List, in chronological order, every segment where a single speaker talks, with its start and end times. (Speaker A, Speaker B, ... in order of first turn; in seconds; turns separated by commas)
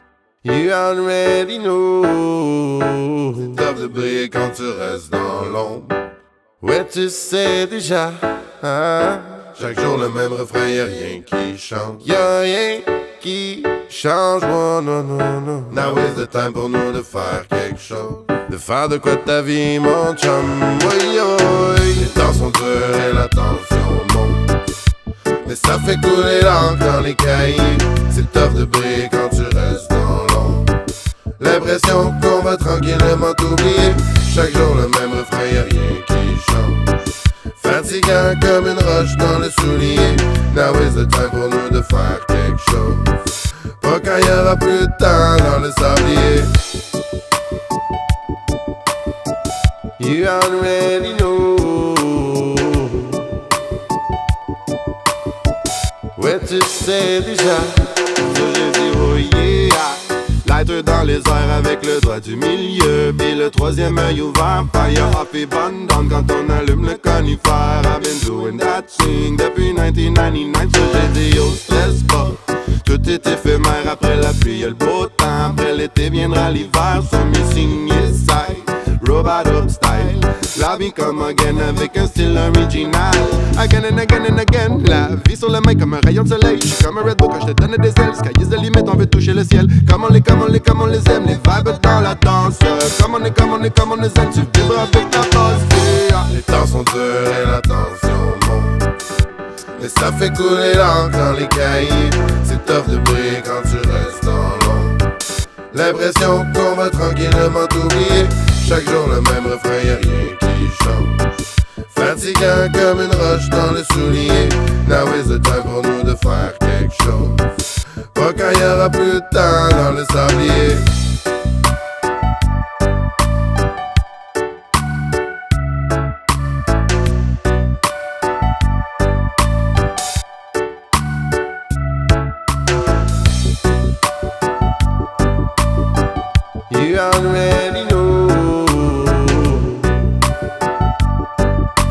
Speaker A: 0.4-6.0, Speaker B: 1.9-3.0, Speaker A: 6.6-24.7, Speaker A: 25.4-46.7, Speaker A: 50.0-53.4, Speaker B: 51.7-53.2, Speaker A: 56.2-58.2, Speaker B: 56.7-96.1, Speaker A: 62.8-63.1, Speaker A: 67.8-68.4, Speaker A: 69.3-70.3, Speaker A: 95.3-98.9, Speaker A: 99.8-105.2, Speaker A: 105.7-121.0, Speaker A: 136.7-140.2